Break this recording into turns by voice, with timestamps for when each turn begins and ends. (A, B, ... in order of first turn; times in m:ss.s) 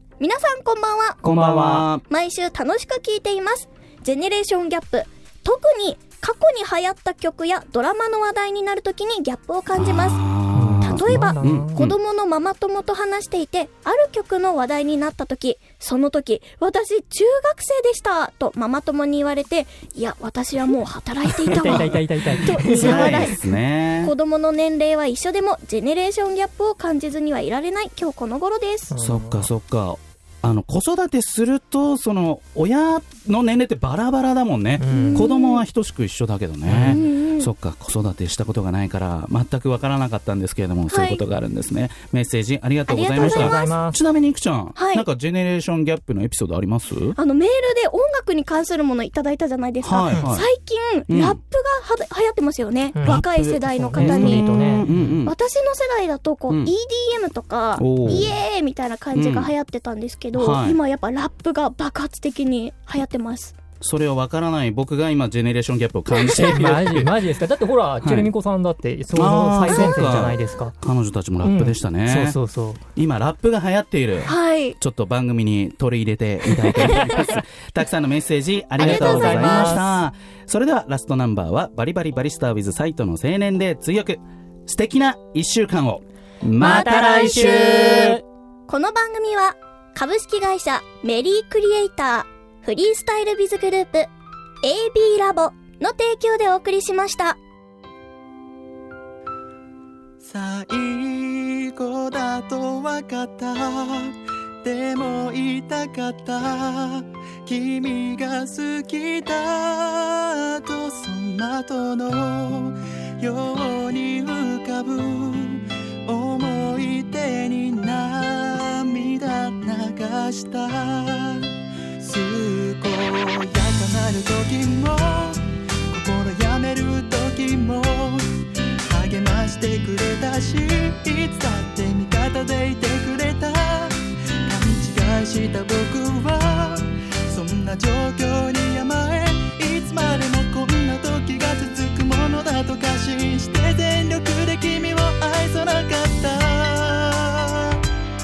0:00.2-0:01.2 A
0:01.2-0:02.0 B
0:01.2-0:01.9 C
0:02.1-0:10.2 A
0:09.7-0:12.0 B
0:10.5-0:11.8 C
0:10.8-0:23.4 A
0:21.4-0:23.2 C
0:21.6-0:24.1 B
0:24.0-0:28.9 A
0:28.9-0:29.5 C
0:29.0-0:47.1 B
0:34.8-0:35.3 C
0:34.9-0:35.6 A
0:36.7-0:37.0 C
0:36.8-0:37.5 A
0:40.9-0:41.2 A
0:42.9-0:43.7 A
0:43.2-0:44.0 C
0:44.8-0:45.0 A
0:47.2-1:03.6 A
0:49.8-0:50.5 B
0:51.1-0:51.4 B
0:52.9-0:53.2 C
0:53.0-0:55.3 B
0:53.7-0:55.1 C
0:57.8-0:58.4 B
0:59.1-0:59.5 B
1:00.4-1:00.8 B
1:03.8-1:07.1 B
1:06.1-1:06.6 A
1:06.5-1:10.7 C
1:08.0-1:08.3 B
1:09.1-1:12.4 B
1:09.7-1:10.3 A
1:11.4-1:12.8 C
1:13.0-1:28.1 B
1:14.2-1:14.8 A
1:18.8-1:20.0 A
1:18.8-1:19.8 C
1:26.6-1:28.2 C
1:27.2-1:28.1 A
1:28.7-1:34.1 A
1:34.6-1:37.4 A
1:40.2-2:08.3 D
2:08.9-2:27.7 D